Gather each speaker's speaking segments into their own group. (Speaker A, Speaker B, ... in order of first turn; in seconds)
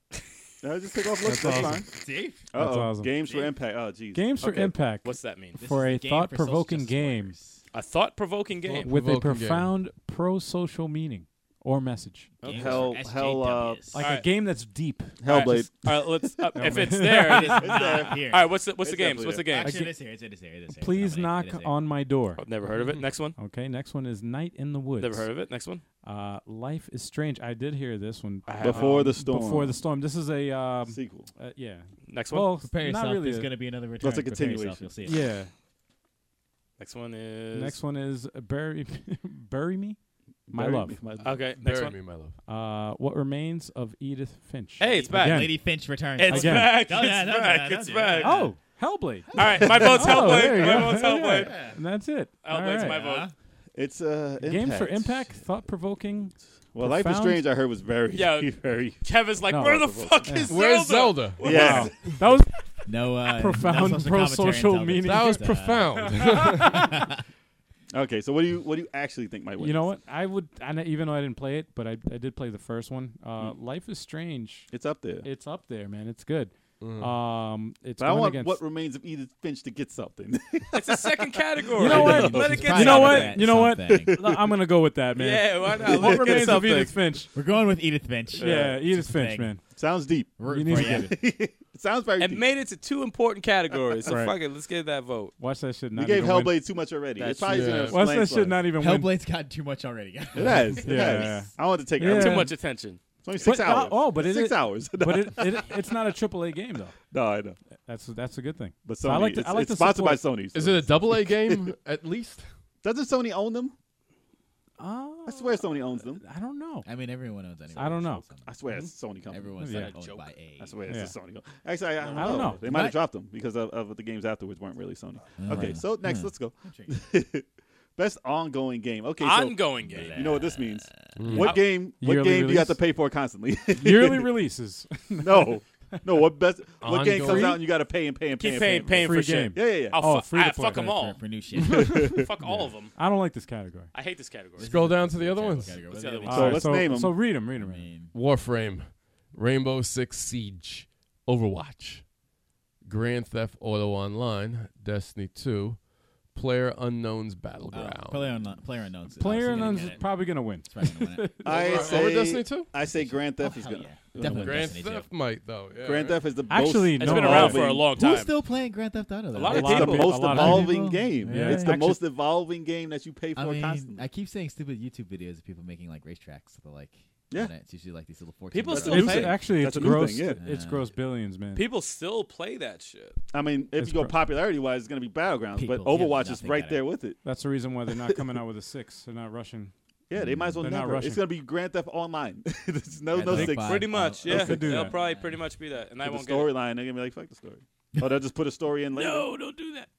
Speaker A: 0.6-2.0, 2.5-4.7, 12.5-13.8, 15.2-16.6, 17.6-18.3, 18.8-19.6, 28.6-29.8, 30.9-31.3, 34.0-34.9, 40.5-41.4, 53.7-55.3, 56.7-60.4, 61.4-61.9, 67.9-69.9, 74.7-75.3, 78.0-82.8, 83.9-84.4, 85.8-86.6, 88.4-88.8, 89.7-92.4, 95.9-98.6, 100.3-102.5, 103.2-105.7, 107.1-107.6, 108.8-111.7, 112.8-113.7, 115.2-116.2, 118.5-119.5, 120.6-127.4, 128.0-134.4, 135.2-140.0, 141.8-142.3, 146.3-147.2, 161.4-164.8, 165.8-167.9, 169.5-174.1, 178.7-180.4, 183.3-187.2, 187.9-188.2, 190.1-194.7, 196.0-199.3
Speaker B: 1.2-1.8, 2.5-3.1, 4.1-7.3, 8.8-12.3, 13.9-15.7, 16.5-17.8, 19.6-19.9, 20.8-22.4, 23.4-25.3, 26.0-33.5, 35.0-35.5, 37.5-40.0, 40.5-41.0, 42.5-45.6, 46.2-46.9, 48.2-53.0, 54.4-57.4, 59.5-60.6, 61.4-67.1, 69.6-74.7, 75.2-78.6, 81.7-87.3, 88.3-89.6, 90.5-91.1, 94.1-94.4, 95.4-96.6, 97.9-99.2, 100.8-102.5, 103.4-107.0, 107.8-110.2, 114.8-116.8, 117.7-118.2, 119.6-119.9, 120.9-121.1, 122.2-122.6, 131.9-132.8, 133.7-136.3, 137.0-137.6, 139.0-141.0, 142.4-143.9, 146.2-147.9, 159.2-161.9, 166.5-167.6, 169.4-172.0, 178.8-181.6, 183.8-184.1, 187.2-189.7, 190.6-191.2, 194.3-194.9
Speaker C: 1.4-2.4, 5.6-7.6, 12.4-14.0, 16.8-18.5, 19.5-21.8, 32.6-35.2, 44.8-48.6, 49.3-51.8, 52.8-53.3, 62.9-67.1, 81.8-84.2, 87.3-89.5, 90.4-91.2, 98.7-101.4, 116.8-118.5, 119.3-120.8, 122.1-123.0, 125.4-127.0, 129.8-131.4, 140.7-142.2, 144.6-148.2, 157.7-161.6, 162.8-165.1, 167.3-171.9, 173.3-180.9, 185.6-186.8, 190.1-190.7, 193.1-195.4
Speaker D: 5.0-5.6, 7.7-8.9, 12.4-13.0, 14.0-14.2, 15.2-19.9, 22.4-23.4, 25.0-25.8, 28.4-29.0, 32.1-32.6, 36.8-37.8, 41.2-42.0, 44.8-45.6, 46.2-48.5, 49.3-51.7, 52.4-53.3, 58.1-61.9, 80.7-83.4, 85.2-87.0, 92.2-95.3, 97.2-97.9, 102.0-103.0, 119.7-120.3, 129.2-130.4, 131.4-131.6, 138.4-141.2, 141.9-142.9, 143.9-144.8, 145.8-146.6, 161.6-161.9, 166.9-168.3, 169.3-170.1, 178.5-179.3, 181.5-183.2, 193.3-196.5, 198.9-199.9
Speaker E: 8.6-9.7, 41.6-42.4, 60.5-62.1, 65.0-67.0, 76.8-77.2, 97.5-98.0, 110.5-112.5, 131.2-131.6, 136.8-137.6, 144.6-145.8, 148.1-152.0, 152.8-158.4, 161.6-162.7, 164.2-166.2